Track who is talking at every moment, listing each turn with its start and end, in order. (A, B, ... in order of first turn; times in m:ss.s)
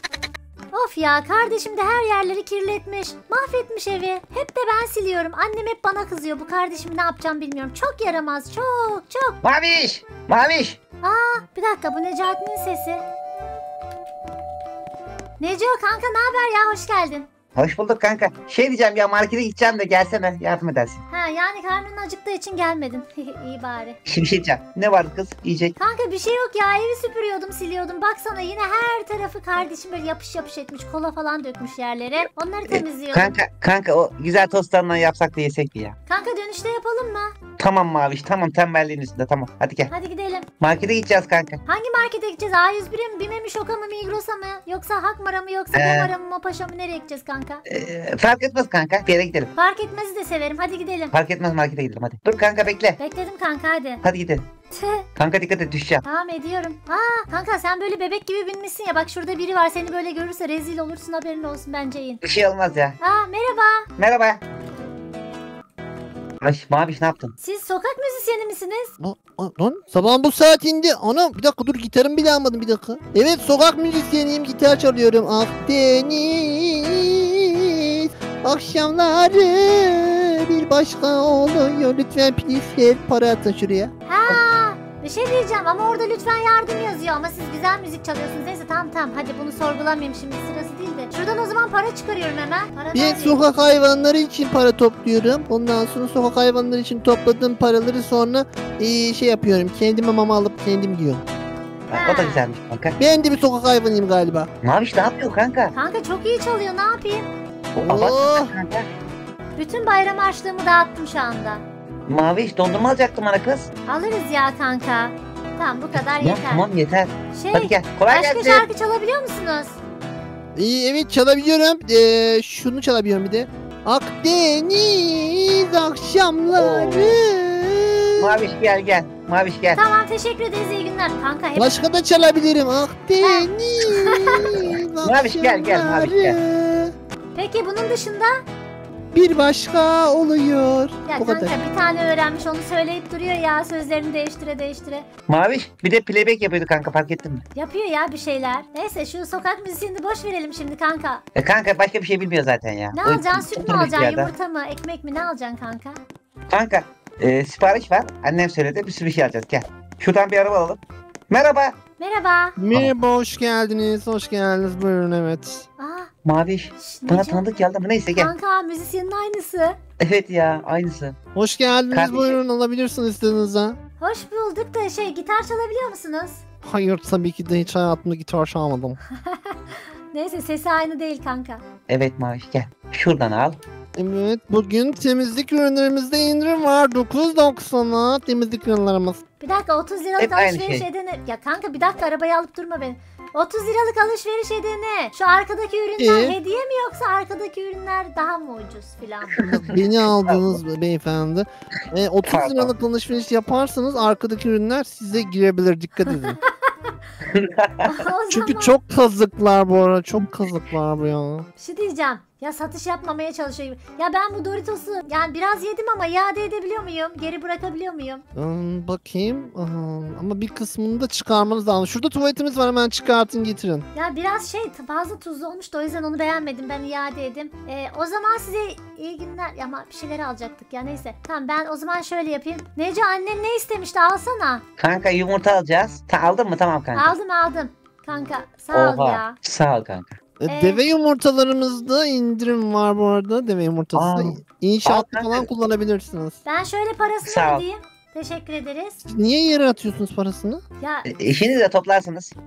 0:00.7-0:09.4 A
0:09.4-0:10.8 B
0:11.0-0:13.0 A
0:15.4-0:17.3 A
0:17.6-0:21.0 B
0:21.1-0:24.0 A
0:24.1-0:25.8 B
0:25.8-0:33.4 A
0:32.2-0:36.0 B
0:36.1-0:37.3 A
0:37.6-0:39.9 B
0:39.9-0:40.5 A
0:40.6-0:41.6 B
0:41.7-0:47.6 A
0:45.7-0:46.1 B
0:47.7-0:49.5 B
0:49.6-0:51.1 A
0:51.1-0:53.0 B
0:53.0-0:54.0 A
0:54.0-0:54.5 B
0:54.7-0:55.0 A
0:55.2-0:56.0 B
0:56.0-1:02.2 A
1:02.2-1:03.0 B
1:03.0-1:03.9 A
1:04.0-1:04.4 B
1:06.4-1:07.4 B
1:07.4-1:08.9 A
1:09.0-1:23.9 C
1:24.1-1:33.4 A
1:32.9-1:41.2 C
1:41.9-1:43.0 B
1:41.9-1:42.5 A
1:43.0-1:44.5 C
1:44.6-1:45.7 B
1:45.7-1:47.3 A
1:47.8-1:48.9 B
1:47.9-1:48.5 C
1:49.6-1:51.6 A
1:52.1-1:53.7 B
1:53.9-1:56.6 A
1:56.0-1:58.7 B
1:57.3-1:59.8 A
2:00.6-2:08.4 C
2:06.5-2:07.2 B
2:08.2-2:09.8 B
2:09.8-2:11.8 A
2:11.6-2:16.9 C
2:13.2-2:14.4 A
2:15.0-2:16.4 B
2:17.4-2:18.4 A
2:19.1-2:21.5 C
2:21.1-2:25.1 A
2:25.3-2:27.4 B
2:27.6-2:31.2 A
2:31.4-2:34.3 B
2:32.9-2:36.0 A
2:36.5-2:41.8 B
2:42.0-2:42.6 A
2:42.6-2:45.6 C
2:45.8-2:46.1 A
2:46.2-2:48.3 B
2:46.8-2:47.4 A
2:48.2-2:49.8 A
2:50.0-2:51.2 B
2:51.4-2:53.8 C
2:51.9-2:52.4 B
2:54.0-2:56.4 A
2:56.6-2:59.0 C
2:59.1-3:01.6 A
3:01.9-3:03.6 B
3:04.0-3:09.2 C
3:09.4-3:19.4 A
3:10.2-3:10.9 B
3:16.0-3:16.4 C
3:19.4-3:26.4 C
3:19.8-3:20.3 B
3:22.2-3:22.7 B
3:26.1-3:27.0 A
3:27.3-3:27.9 B
3:27.9-3:28.8 A
3:28.3-3:31.5 C
3:31.6-3:38.2 A
3:38.4-3:43.9 C
3:43.9-3:54.6 A
3:54.8-3:57.2 B
3:57.0-3:59.4 A
3:58.7-4:00.2 B
4:00.4-4:06.4 C
4:00.5-4:00.8 A
4:03.9-4:05.5 B
4:06.5-4:09.0 A
4:07.2-4:07.6 B
4:09.1-4:10.6 C
4:10.8-4:11.1 A
4:11.0-4:12.3 B